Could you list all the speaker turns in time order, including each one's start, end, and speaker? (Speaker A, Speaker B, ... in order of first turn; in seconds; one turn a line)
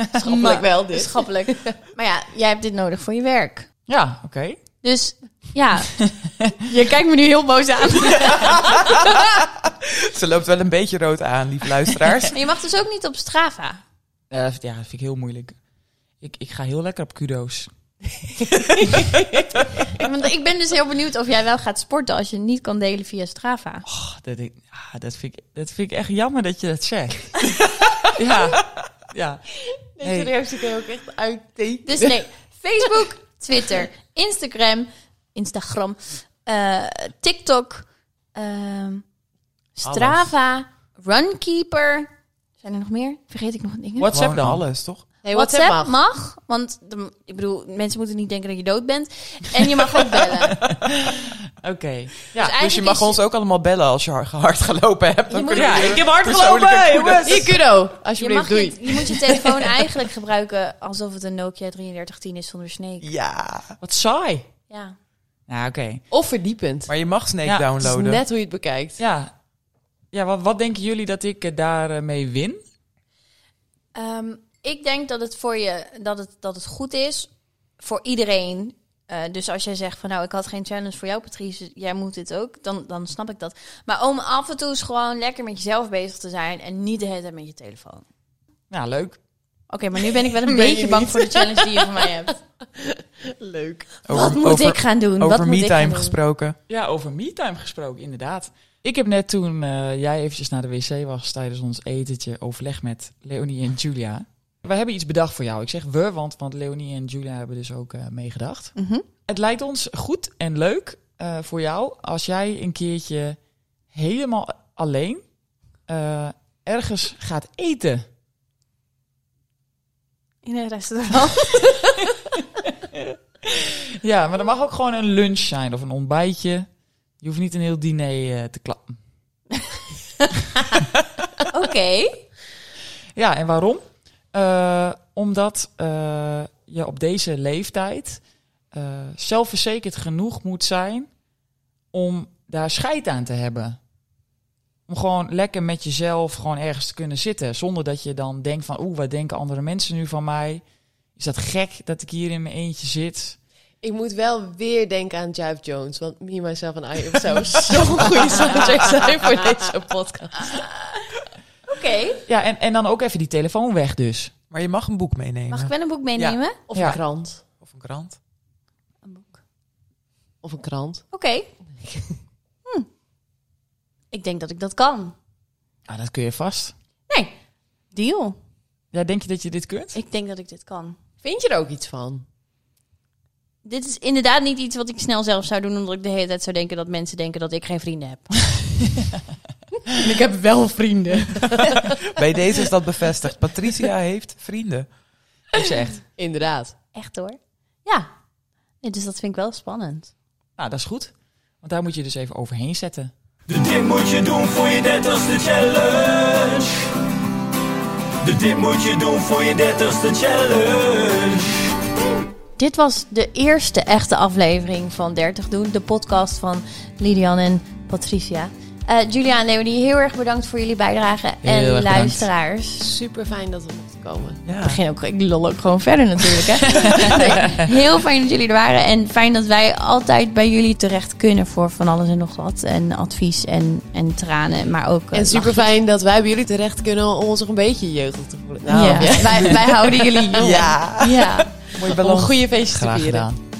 Speaker A: 0.1-1.8
Speaker B: 0.1-3.7
Speaker C: 3.9-4.6
Speaker B: 4.8-6.0
Speaker C: 6.0-6.5
Speaker B: 6.6-9.2
Speaker D: 8.4-12.4
Speaker B: 12.3-13.8
Speaker C: 14.3-15.6
Speaker C: 16.2-17.7
Speaker A: 18.8-19.4
Speaker B: 19.9-23.9
Speaker C: 23.9-27.5
Speaker C: 28.0-29.4
Speaker A: 30.0-32.2
Speaker C: 30.0-30.3
Speaker B: 31.9-39.0
Speaker B: 39.8-42.1
Speaker D: 39.8-40.3
Speaker B: 42.6-44.1
Speaker C: 44.0-44.6
Speaker D: 44.1-45.0
Speaker A: 45.2-45.9
Speaker B: 45.3-50.6
Speaker C: 50.6-52.5
Speaker B: 52.4-53.2
Speaker D: 52.4-57.5
Speaker A: 55.3-56.1
Speaker C: 55.5-57.5
Speaker A: 57.3-59.8
Speaker B: 58.2-63.1
Speaker D: 63.0-63.8
Speaker C: 63.8-64.5
Speaker B: 64.7-65.0
Speaker C: 65.5-66.0
Speaker A: 66.1-66.9
Speaker D: 66.9-68.2
Speaker C: 67.5-67.7
Speaker A: 67.8-69.0
Speaker C: 69.0-69.3
Speaker C: 70.1-72.6
Speaker B: 74.0-88.0
Speaker C: 88.7-89.2
Speaker B: 89.7-92.4
Speaker A: 90.3-92.0
Speaker A: 92.6-94.0
Speaker D: 94.0-96.6
Speaker B: 94.1-96.2
Speaker C: 96.7-108.8
Speaker B: 108.8-109.0
Speaker C: 109.3-113.4
Speaker C: 113.9-115.2
Speaker C: 115.9-118.0
Speaker B: 120.4-121.9
Speaker C: 122.9-126.7
Speaker C: 127.2-129.0
Speaker B: 131.5-132.2
Speaker C: 133.2-138.2
Speaker C: 138.7-141.1
Speaker C: 141.9-143.8
Speaker C: 144.9-150.6
Speaker C: 151.2-153.4
Speaker A: 153.8-160.7
Speaker B: 161.7-162.2
Speaker C: 162.3-164.3
Speaker D: 164.5-166.4
Speaker B: 165.5-166.6
Speaker A: 166.7-167.4
Speaker C: 166.7-167.0
Speaker D: 167.6-168.2
Speaker B: 169.1-169.4
Speaker A: 170.4-171.1
Speaker B: 171.1-171.5
Speaker A: 171.8-172.1
Speaker B: 174.1-175.2
Speaker C: 175.9-176.7
Speaker B: 177.9-178.4
Speaker C: 178.9-180.0
Speaker B: 179.9-181.0
Speaker A: 181.2-182.2
Speaker B: 183.7-188.4
Speaker A: 189.9-192.1
Speaker D: 192.1-194.9
Speaker C: 195.5-196.0
Speaker A: 196.0-196.8
Speaker B: 196.9-198.1
Speaker B: 198.8-200.1
Speaker C: 200.6-203.1
Speaker E: 203.5-206.9
Speaker E: 208.2-211.7
Speaker B: 212.6-222.8
Speaker C: 221.4-222.3
Speaker A: 222.8-224.4
Speaker D: 224.4-224.8
Speaker B: 224.6-235.7
Speaker C: 226.8-227.6
Speaker A: 235.1-240.8
Speaker D: 238.6-239.6
Speaker B: 238.7-241.5
Speaker D: 240.3-242.4
Speaker A: 241.8-243.3
Speaker C: 242.7-243.4